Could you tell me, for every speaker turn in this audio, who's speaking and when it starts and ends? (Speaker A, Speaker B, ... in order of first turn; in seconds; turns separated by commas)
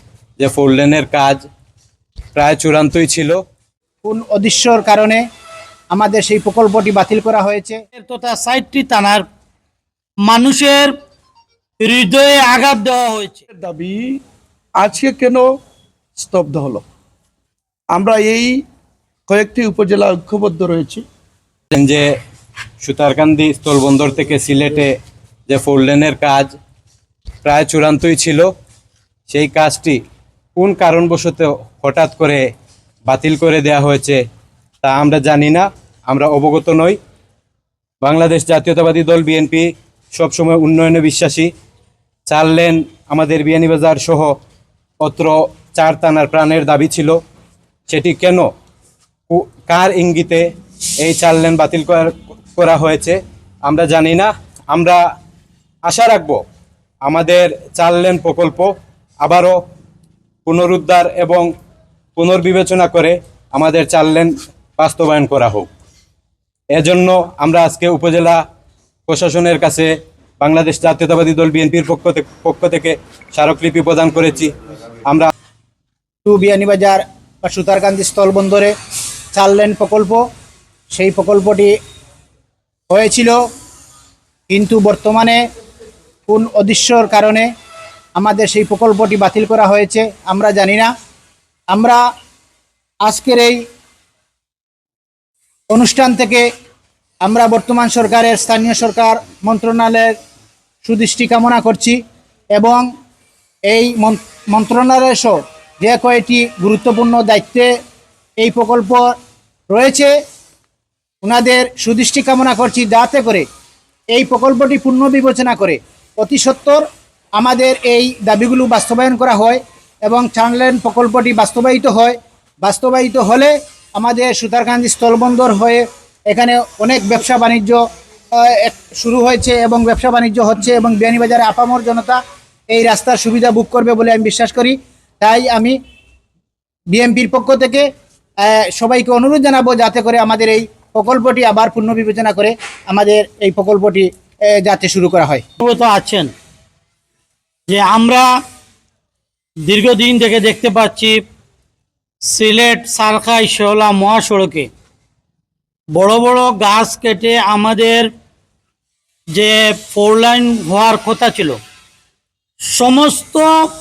Speaker A: 0.4-1.4, Speaker A: 2.3-3.4, Speaker B: 4.0-5.2, Speaker B: 5.9-7.8, Speaker C: 7.9-9.2, Speaker C: 10.2-10.9, Speaker C: 11.8-13.4, Speaker D: 13.5-14.2, Speaker D: 14.8-15.5, Speaker D: 16.2-16.8, Speaker D: 17.9-18.6, Speaker D: 19.3-21.0, Speaker A: 21.7-22.1, Speaker A: 22.8-24.9, Speaker A: 25.5-26.5, Speaker A: 27.4-28.5, Speaker A: 29.3-30.0, Speaker A: 30.6-32.4, Speaker A: 33.1-34.2, Speaker A: 34.8-37.0, Speaker A: 38.0-41.5, Speaker A: 42.3-44.4, Speaker A: 45.0-47.2, Speaker A: 47.9-48.5, Speaker A: 49.3-50.5, Speaker A: 51.0-55.0, Speaker A: 55.9-56.4, Speaker A: 57.0-59.6, Speaker A: 60.4-61.5, Speaker A: 62.1-65.7, Speaker A: 66.7-68.4, Speaker A: 69.1-74.5, Speaker B: 76.2-78.7, Speaker B: 79.3-80.2, Speaker B: 80.9-81.7, Speaker B: 82.9-83.4, Speaker B: 84.5-85.4, Speaker B: 86.3-87.5, Speaker B: 88.2-90.9, Speaker B: 91.7-92.0, Speaker B: 93.0-93.6, Speaker B: 95.7-96.4, Speaker B: 97.2-100.1, Speaker B: 100.8-102.0, Speaker B: 102.5-102.8, Speaker B: 103.7-107.7, Speaker B: 108.4-109.1, Speaker B: 109.7-110.1, Speaker B: 111.2-113.5, Speaker B: 114.1-127.8, Speaker B: 128.4-135.8, Speaker B: 136.9-137.9, Speaker B: 138.4-145.4, Speaker C: 145.6-146.3, Speaker C: 147.7-148.3, Speaker C: 149.6-151.2, Speaker C: 152.3-154.7, Speaker C: 155.9-158.1, Speaker C: 159.3-161.6, Speaker C: 162.7-163.5